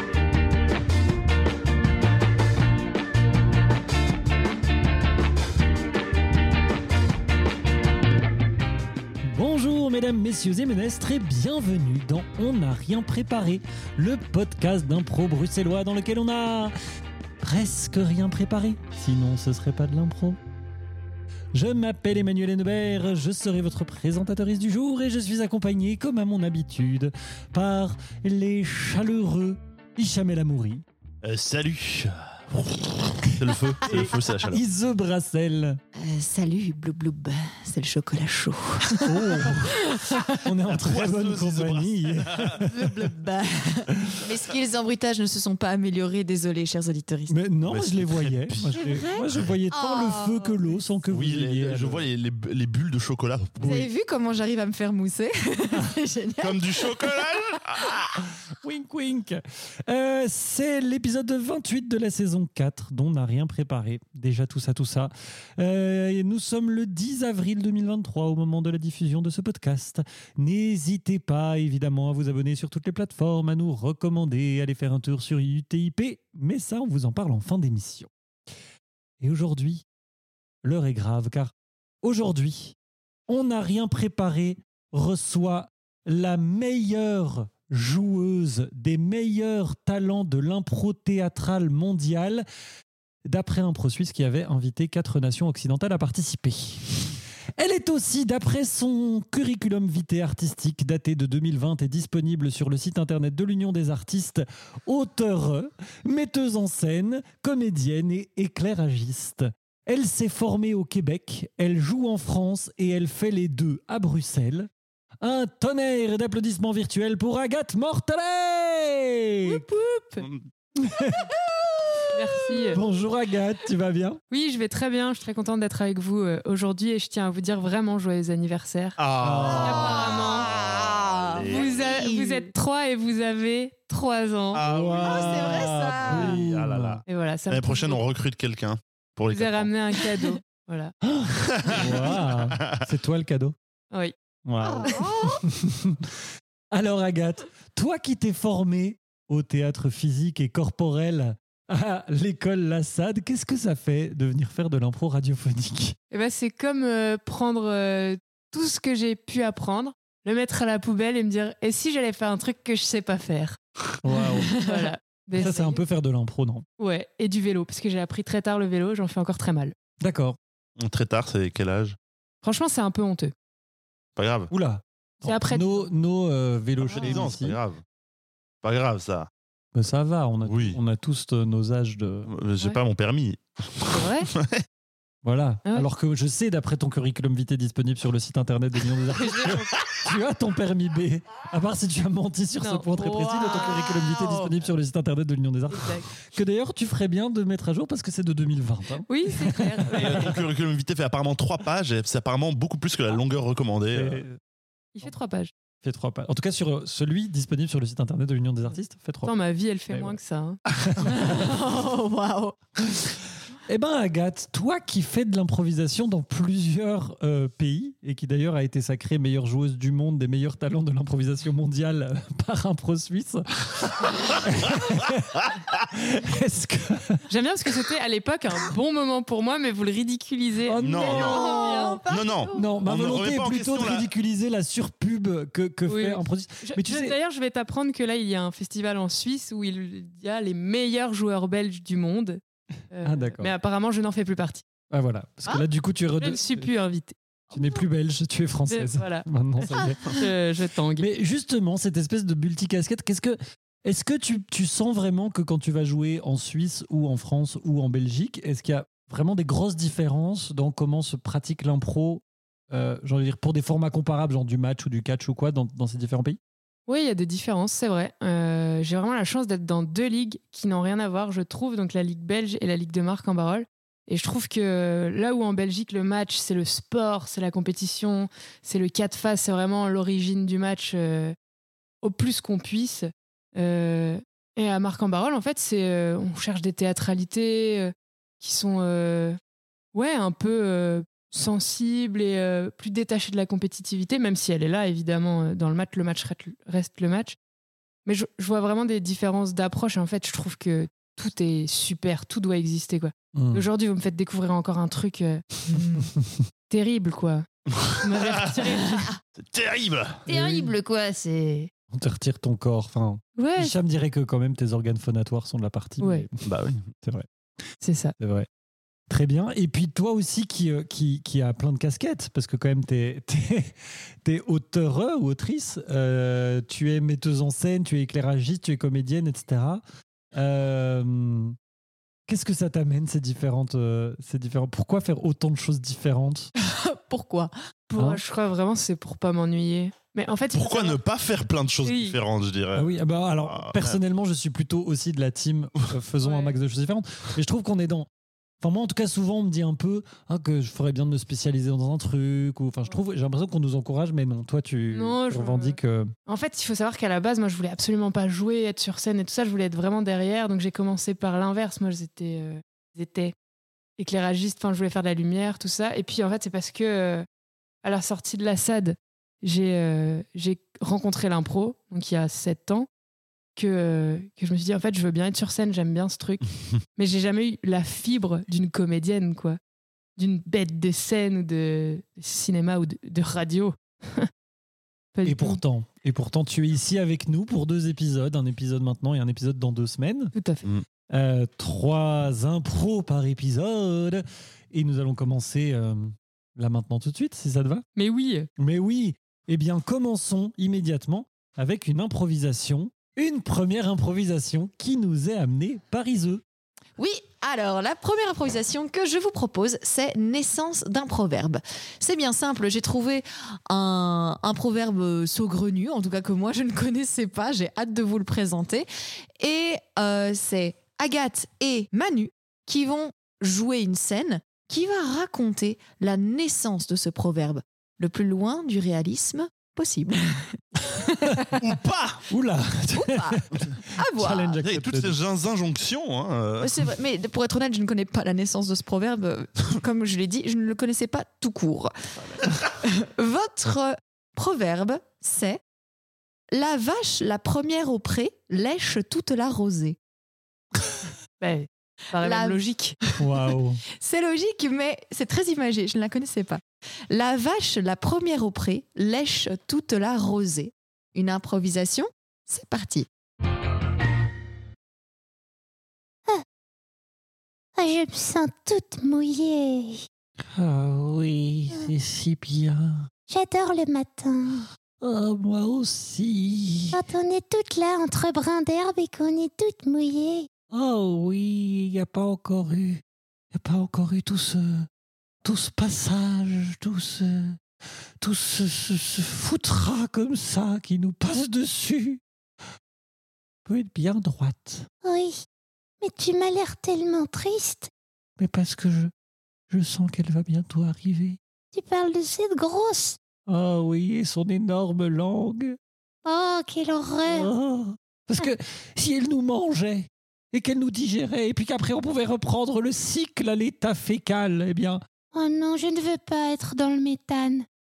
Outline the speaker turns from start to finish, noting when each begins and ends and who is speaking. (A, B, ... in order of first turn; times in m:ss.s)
0:09.3-0:16.7 A
0:17.4-0:20.4 A
0:21.5-0:30.8 A
0:31.2-0:34.6 B
0:33.9-0:35.8 A
0:35.9-0:39.1 C
0:39.0-0:42.7 A
0:40.7-0:42.6 B
0:42.6-0:47.3 C
0:47.3-0:52.0 A
0:47.7-0:48.8 B
0:48.8-0:50.8 C
0:51.1-0:53.8 B
0:53.6-0:57.3 C
0:53.6-0:53.9 A
0:56.4-0:58.2 B
0:58.6-1:18.1 A
1:19.2-1:19.8 A
1:20.6-1:22.7 A
1:23.3-1:32.4 A
1:33.2-1:37.0 A
1:37.6-1:54.7 A
1:55.2-1:59.6 A
1:59.4-2:00.3 D
2:00.8-2:01.3 A
2:02.1-2:02.8 D
2:02.7-2:04.2 A
2:04.3-2:09.0 D
2:09.0-2:11.9 B
2:09.2-2:09.9 A
2:09.5-2:10.5 D
2:09.6-2:12.5 C
2:11.5-2:14.6 D
2:14.5-2:19.7 B
2:14.6-2:17.0 A
2:15.0-2:16.4 C
2:17.1-2:18.0 D
2:19.3-2:20.9 D
2:21.0-2:23.5 A
2:21.4-2:22.8 B
2:24.4-2:26.1 A
2:24.6-2:25.4 C
2:24.8-2:25.1 D
2:26.7-2:36.0 A
2:36.1-2:43.6 D
2:44.0-2:44.6 A
2:44.4-2:45.8 D
2:45.4-2:46.6 A
2:46.8-2:49.7 D
2:50.0-2:50.4 A
2:50.8-2:52.0 B
2:52.4-2:53.3 D
2:54.2-2:54.5 B
2:54.5-2:57.6 A
2:55.2-2:55.9 D
2:56.8-2:57.8 B
2:57.0-2:57.2 D
2:58.6-2:59.3 B
2:59.7-3:02.3 A
3:00.4-3:00.8 B
3:02.2-3:04.6 B
3:03.9-3:04.3 D
3:05.2-3:20.3 A
3:09.1-3:09.8 D
3:12.6-3:13.6 D
3:13.1-3:14.5 C
3:15.7-3:16.1 D
3:19.1-3:20.3 D
3:19.9-3:24.2 B
3:23.9-3:24.4 A
3:24.9-3:25.5 D
3:25.8-3:29.3 A
3:29.2-3:30.6 D
3:29.9-3:30.2 A
3:30.8-3:31.5 A
3:31.0-3:32.6 C
3:33.7-3:47.2 A
3:44.8-3:45.8 B
3:47.3-3:52.0 D
3:50.7-3:57.1 A
3:50.8-3:51.4 B
3:51.1-3:52.7 C
3:52.0-3:54.1 B
3:55.9-4:02.4 D
4:02.9-4:04.6 D
4:03.0-4:03.5 A
4:04.9-4:06.7 A
4:06.2-4:07.1 D
4:07.5-4:10.2 A
4:08.7-4:09.2 D
4:10.0-4:11.0 D
4:11.0-4:26.4 A
4:26.9-4:41.3 D
4:42.0-4:49.4 D
4:49.9-4:57.4 D
4:58.0-5:05.8 D
5:03.3-5:03.6 A
5:06.0-5:06.4 A
5:06.7-5:07.4 D
5:07.7-5:08.6 B
5:08.0-5:09.1 D
5:09.4-5:10.2 B
5:10.3-5:10.7 A
5:10.3-5:11.7 D
5:11.9-5:16.4 A
5:13.4-5:13.8 D
5:16.0-5:16.2 D
5:16.4-5:16.8 B
5:17.8-5:18.1 D
5:18.2-5:18.5 A
5:19.1-5:29.8 A
5:30.3-5:31.6 A
5:32.3-5:36.5 A
5:36.6-5:37.5 C
5:37.9-5:41.0 D
5:38.0-5:38.2 A
5:40.5-5:44.0 B
5:41.8-5:42.2 D
5:42.7-5:48.1 A
5:46.2-5:46.6 D
5:48.6-5:56.1 A
5:54.9-6:03.3 D
6:04.0-6:07.2 D
6:07.8-6:12.9 D
6:13.6-6:19.6 D
6:20.2-6:24.3 D
6:25.1-6:25.6 D
6:25.2-6:30.3 A
6:30.3-6:30.6 D
6:31.1-6:37.8 A
6:38.0-6:38.5 D
6:38.6-6:46.4 A
6:47.0-6:58.9 C
6:59.4-7:11.0 C
7:11.5-7:12.2 B
7:12.3-7:15.2 A
7:12.9-7:14.6 C
7:14.6-7:16.8 B
7:16.6-7:21.9 C
7:22.5-7:25.6 C
7:26.5-7:30.0 C
7:31.4-7:33.0 D
7:32.2-7:33.1 C
7:33.2-7:33.8 A
7:34.0-7:43.1 C
7:47.8-7:50.0 E
7:50.5-7:53.1 A
7:53.3-7:54.6 E
7:55.0-7:57.0 A
7:56.9-8:00.5 E
8:00.7-8:03.0 A
8:03.5-8:04.9 A
8:05.4-8:07.6 A
8:08.2-8:12.2 A
8:13.6-8:14.9 A
8:15.0-8:15.4 E
8:16.0-8:17.9 E
8:18.4-8:19.1 A
8:19.7-8:21.4 A
8:21.7-8:23.2 E
8:23.5-8:25.8 A
8:26.2-8:27.5 E
8:27.2-8:35.0 A
8:35.3-8:37.6 E